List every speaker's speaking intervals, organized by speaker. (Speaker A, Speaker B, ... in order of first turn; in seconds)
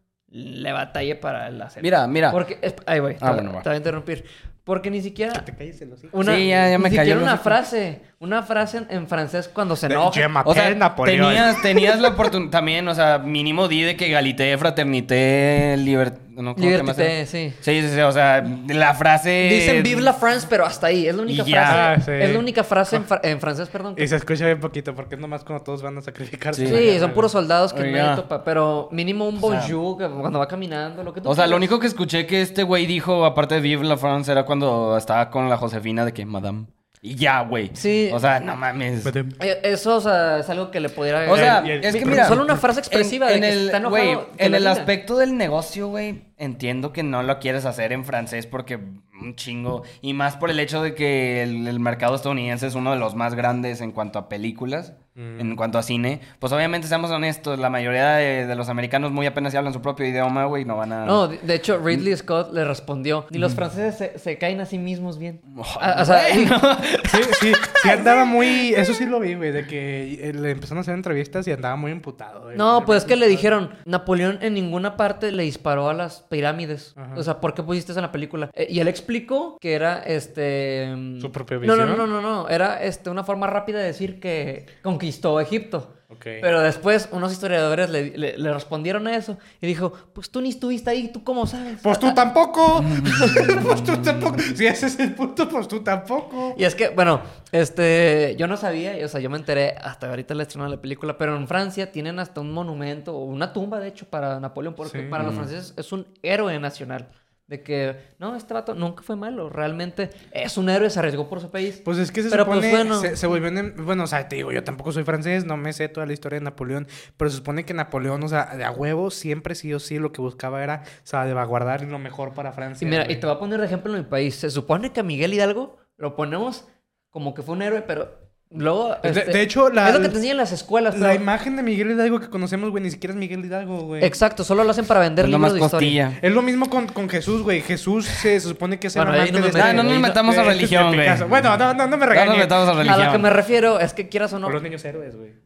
Speaker A: 0.3-5.5, 6.1-10.3, 16.6-17.6, 19.4-24.1, 26.6-31.7, 37.7-38.2, 39.4-44.9, 61.0-66.6, 72.5-92.2, 93.0-93.8, 96.5-113.2, 122.8-131.2, 134.0-136.0, 138.9-140.1, 142.8-144.6
Speaker B: 1.8-2.4, 3.2-3.6, 6.2-7.6, 10.4-20.1, 21.3-21.9, 26.5-26.9, 27.7-28.2, 29.4-29.8, 31.2-39.1, 41.3-61.2, 65.5-68.1, 93.0-93.8, 105.2-105.5, 135.2-136.2, 139.5-141.4, 142.1-143.3
Speaker C: 5.3-6.7, 9.9-12.1, 21.6-23.0, 23.9-27.3, 39.0-39.4, 41.3-42.6, 55.1-55.6, 67.1-73.5, 77.0-77.2, 81.2-82.1, 86.1-86.5, 91.8-96.6, 104.8-105.3, 111.8-123.2, 129.0-130.2, 130.9-134.1, 136.2-142.8, 144.4-145.4